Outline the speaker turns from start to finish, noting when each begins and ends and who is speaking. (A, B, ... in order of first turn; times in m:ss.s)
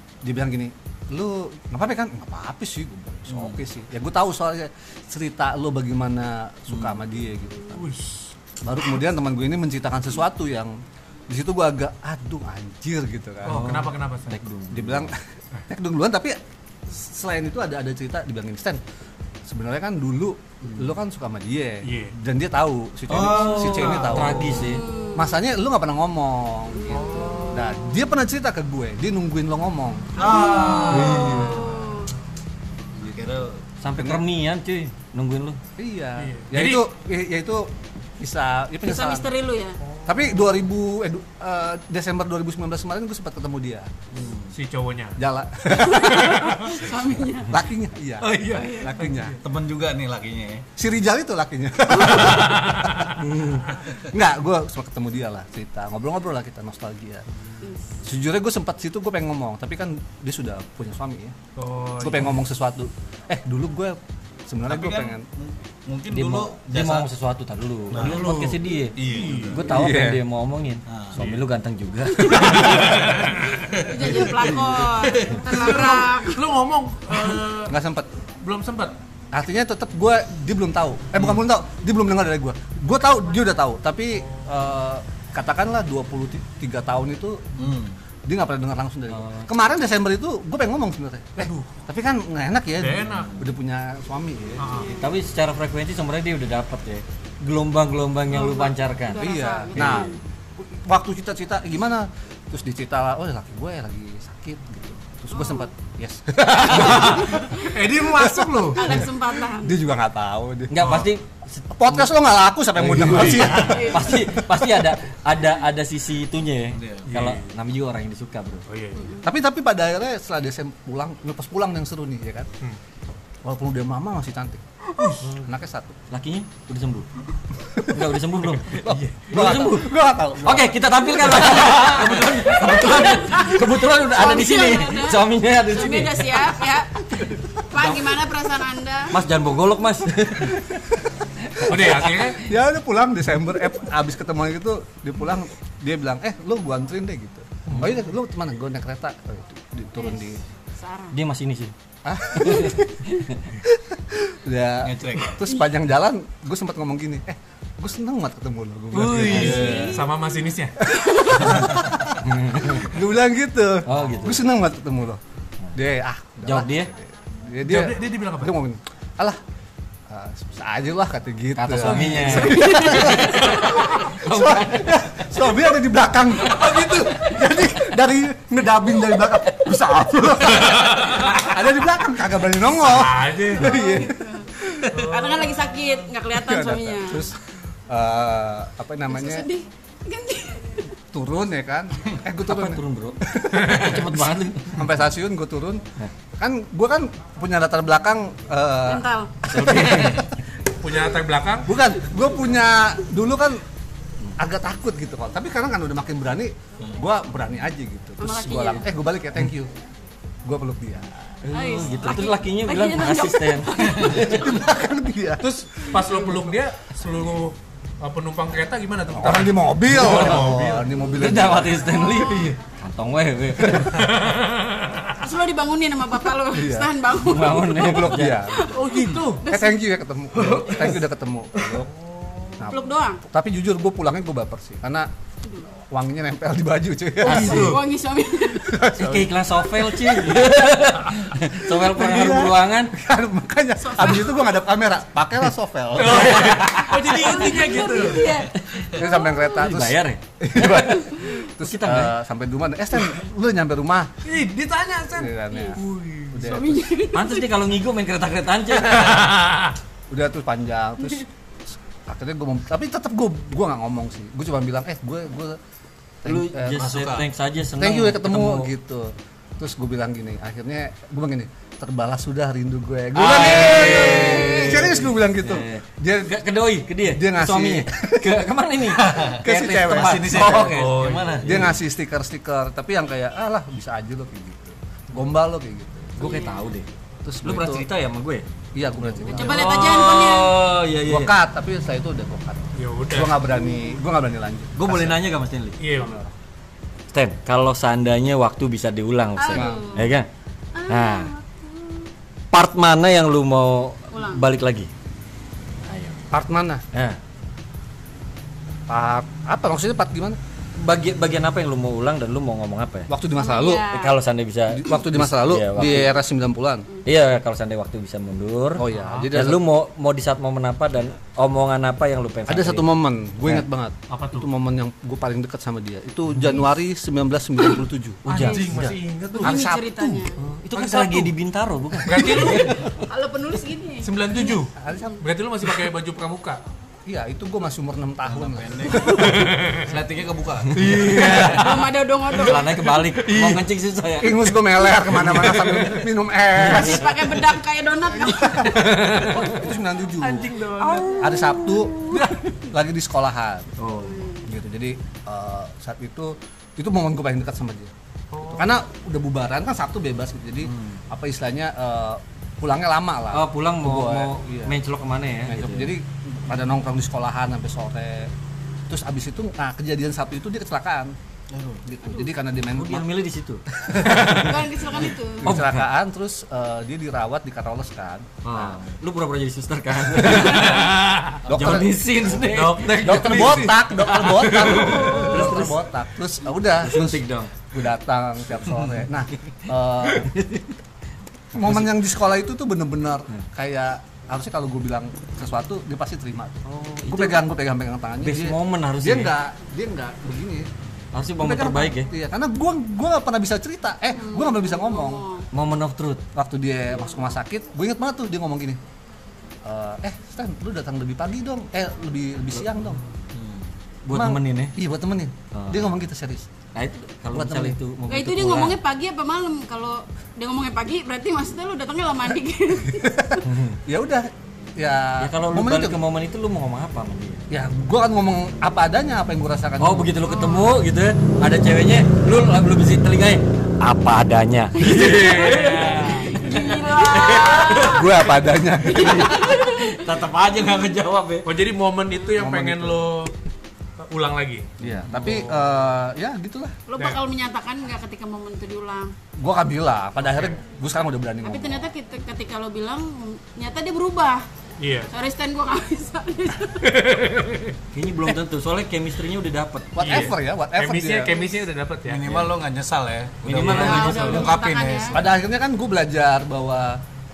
0:00.2-0:07.8 A
0:07.7-0:08.3 B
0:08.6-0:10.8 A
0:11.3-0:13.7 A
0:13.4-0:14.4 B
0:13.5-0:15.1 C
0:14.7-0:18.8 A
0:19.5-0:31.9 A
0:21.8-0:22.1 B
0:23.1-0:23.9 D
0:23.1-0:24.6 B
0:23.2-0:24.8 C
0:24.6-0:25.4 E
0:26.8-0:27.8 E
0:26.9-0:27.7 B
0:30.2-0:31.4 D
0:30.2-0:32.1 E
0:30.3-0:31.6 B
0:33.0-0:34.2 A
0:33.1-0:33.5 D
0:33.8-0:35.6 C
0:35.8-0:39.3 A
0:36.2-0:36.8 B
0:38.8-0:39.8 E
0:39.9-0:40.6 B
0:40.0-0:43.9 A
0:44.1-0:44.5 C
0:44.5-0:45.2 B
0:45.2-0:46.6 A
0:45.8-0:47.6 E
0:46.3-0:46.8 B
0:47.5-0:49.4 A
0:48.2-0:49.4 B
0:49.4-0:50.6 D
0:50.8-0:57.3 A
0:52.2-0:53.2 B
0:53.2-0:53.6 C
0:57.6-0:58.0 E
0:58.0-1:01.4 A
1:01.6-1:02.3 B
1:02.0-1:05.2 A
1:04.7-1:07.1 D
1:06.1-1:12.9 C
1:07.9-1:09.6 D
1:08.0-1:09.6 B
1:09.6-1:10.2 A
1:10.9-1:11.2 D
1:11.2-1:11.4 B
1:12.3-1:13.5 B
1:12.4-1:12.9 A
1:13.5-1:15.4 D
1:13.8-1:16.4 E
1:14.0-1:14.9 A
1:15.4-1:17.7 B
1:17.6-1:18.2 A
1:18.4-1:19.0 B
1:19.3-1:34.8 A
1:27.6-1:28.0 D
1:29.1-1:29.5 C
1:31.4-1:31.7 B
1:32.8-1:33.3 B
1:34.6-1:34.9 B
1:34.6-1:35.2 E
1:34.8-1:40.1 C
1:38.3-1:40.2 E
1:39.2-1:51.0 A
1:45.3-1:45.7 E
1:46.6-1:49.0 B
1:48.7-1:49.7 E
1:50.7-1:52.0 C
1:50.8-1:51.1 B
1:51.7-1:54.9 A
1:52.8-1:58.6 C
1:53.0-1:53.9 B
1:53.5-1:54.1 E
1:56.8-1:57.0 D
1:57.1-1:57.5 B
1:58.7-1:59.2 B
1:58.9-1:59.2 E
1:59.2-2:02.5 A
2:03.4-2:04.6 A
2:05.0-2:05.5 B
2:05.2-2:06.0 A
2:06.1-2:07.2 C
2:07.7-2:08.0 A
2:07.7-2:16.5 C
2:08.6-2:11.0 A
2:08.9-2:09.3 B
2:11.5-2:12.0 B
2:12.5-2:19.1 E
2:19.1-2:20.8 C
2:20.4-2:20.8 A
2:21.5-2:22.3 C
2:21.6-2:22.4 B
2:21.7-2:30.4 A
2:30.0-2:31.1 E
2:31.1-2:31.7 C
2:32.0-2:33.0 A
2:32.3-2:33.6 C
2:33.6-2:40.0 A
2:34.8-2:35.4 D
2:38.9-2:39.7 D
2:39.0-2:40.0 C
2:39.0-2:40.8 B
2:39.3-2:40.1 E
2:40.9-2:41.6 E
2:41.0-2:45.2 A
2:42.2-2:42.9 C
2:43.8-2:44.4 C
2:45.7-2:49.4 A
2:46.4-2:46.9 C
2:47.6-2:48.5 B
2:50.1-3:04.9 A
2:51.5-2:55.2 C
2:56.6-2:57.2 B
3:00.7-3:01.5 B
3:02.8-3:03.8 B
3:03.6-3:07.3 E
3:04.9-3:06.0 B
3:06.3-3:09.4 A
3:09.1-3:10.9 E
3:11.1-3:14.2 A
3:12.4-3:14.9 C
3:14.7-3:15.8 A
3:16.4-3:20.2 A
3:18.8-3:19.4 E
3:19.5-3:20.4 C
3:20.7-3:21.7 B
3:21.6-3:23.6 A
3:24.4-3:29.7 A
3:28.2-3:28.9 E
3:30.4-3:31.2 A
3:31.4-3:34.5 C
3:31.5-3:34.6 E
3:34.0-3:35.5 A
3:35.4-3:40.7 B
3:39.1-3:41.8 A
3:39.9-3:44.0 C
3:41.7-3:42.6 E
3:43.6-3:44.1 A
3:43.9-3:45.1 B
3:45.2-3:49.8 E
3:46.5-3:46.9 A
3:47.2-3:48.4 C
3:47.7-3:51.9 A
3:48.7-3:49.4 B
3:50.4-3:50.9 B
3:51.7-3:52.6 B
3:52.6-3:55.1 A
3:52.7-3:53.2 E
3:55.8-3:57.8 A
3:57.2-3:57.8 C
3:57.2-3:58.8 E
3:57.3-3:57.6 B
3:58.6-3:59.3 A
3:58.9-4:02.9 C
4:01.8-4:07.0 A
4:03.8-4:04.5 E
4:06.0-4:08.4 B
4:06.0-4:12.1 C
4:07.0-4:09.3 E
4:08.9-4:14.2 A
4:10.8-4:11.3 E
4:14.2-4:16.5 B
4:15.1-4:16.8 A
4:15.5-4:15.8 E
4:16.4-4:17.4 E
4:17.1-4:19.5 C
4:18.9-4:19.7 B
4:20.1-4:25.6 A
4:26.2-4:26.9 A
4:26.2-4:28.7 C
4:26.8-4:27.2 D
4:27.8-4:36.4 A
4:33.1-4:41.8 C
4:33.2-4:34.1 D
4:34.3-4:34.7 E
4:37.0-4:38.4 A
4:38.9-4:41.7 D
4:39.2-4:40.5 A
4:40.6-4:41.3 B
4:41.4-4:46.3 A
4:46.2-4:46.9 C
4:46.2-4:46.6 E
4:47.2-4:47.9 A
4:47.4-4:48.4 C
4:48.7-4:49.6 A
4:49.1-4:51.3 C
4:49.3-4:50.6 E
4:51.1-4:55.2 A
4:52.8-4:53.3 B
4:54.8-4:55.8 C
4:55.8-4:56.2 B
4:55.9-4:56.3 A
4:57.1-5:00.3 C
4:59.4-5:00.1 E
4:59.5-4:59.8 A
5:00.7-5:02.1 E
5:00.9-5:01.3 C
5:02.5-5:04.9 C
5:04.1-5:04.4 E
5:05.8-5:06.3 C
5:06.3-5:06.8 A
5:06.9-5:07.2 C
5:08.9-5:10.4 A
5:10.8-5:13.1 C
5:13.1-5:13.8 A
5:13.3-5:14.2 E
5:13.8-5:16.2 C
5:14.7-5:16.9 A
5:17.0-5:22.9 C
5:18.8-5:19.6 A
5:18.9-5:19.3 B
5:22.5-5:28.2 A
5:24.1-5:24.5 B
5:28.2-5:29.0 C
5:28.3-5:29.5 B
5:29.4-5:31.3 A
5:29.4-5:30.3 E
5:30.4-5:32.8 C
5:32.0-5:32.8 B
5:32.4-5:34.6 E
5:34.0-5:36.6 B
5:34.8-5:35.3 A
5:37.0-5:39.7 A
5:38.4-5:41.0 D
5:39.3-5:39.7 B
5:40.7-5:41.8 A
5:41.0-5:41.8 B
5:41.2-5:42.9 E
5:42.3-5:46.0 C
5:43.3-5:43.6 A
5:44.2-5:47.3 A
5:46.6-5:47.0 C
5:46.6-5:48.8 E
5:48.2-5:53.8 A
5:48.7-5:49.5 B
5:50.2-5:52.5 B
5:51.4-5:52.0 E
5:53.8-5:54.3 C
5:54.0-5:54.5 E
5:54.4-5:57.9 A
5:58.3-5:58.7 B
5:58.4-6:04.7 A
6:03.3-6:06.0 C
6:05.5-6:08.3 A
6:08.9-6:11.2 A
6:11.5-6:11.8 C
6:11.8-6:13.1 A
6:12.0-6:12.3 E
6:12.7-6:15.9 C
6:13.7-6:14.6 A
6:14.1-6:15.6 E
6:15.4-6:18.8 A
6:18.4-6:25.8 C
6:20.3-6:20.6 A
6:20.8-6:21.1 B
6:21.4-6:22.0 A
6:22.5-6:25.1 B
6:22.9-6:30.6 A
6:26.8-6:27.5 C
6:28.7-6:29.0 C
6:31.5-6:40.7 A
6:31.6-6:31.9 C
6:36.7-6:37.4 C
6:38.2-6:39.3 C
6:41.1-6:42.1 C
6:41.4-6:45.2 A
6:44.1-6:45.4 E
6:45.5-6:46.2 C
6:46.3-6:48.8 A
6:49.6-6:53.0 A
6:53.3-6:54.8 C
6:54.1-6:56.5 A
6:55.5-6:55.9 C
6:56.7-6:58.8 C
6:57.3-6:57.8 A
6:58.1-7:03.4 E
7:03.4-7:03.8 C
7:03.8-7:06.0 A
7:05.2-7:07.4 C
7:07.5-7:10.1 A
7:09.8-7:18.2 C
7:15.0-7:16.4 B
7:15.3-7:18.1 E
7:17.8-7:19.4 A
7:18.8-7:21.5 C
7:19.0-7:19.9 E
7:21.4-7:23.3 B
7:22.3-7:23.1 A
7:24.0-7:25.7 B
7:24.8-7:26.8 A
7:25.0-7:25.4 C
7:26.9-7:29.1 E
7:29.4-7:31.9 A
7:31.4-7:34.4 E
7:34.8-7:35.1 B
7:35.0-7:36.9 E
7:36.8-7:37.7 B
7:37.9-7:40.3 C
7:40.0-7:41.4 A
7:40.0-7:42.4 B
7:42.0-7:45.0 D
7:43.4-7:44.5 C
7:43.6-7:47.0 A
7:43.6-7:45.2 E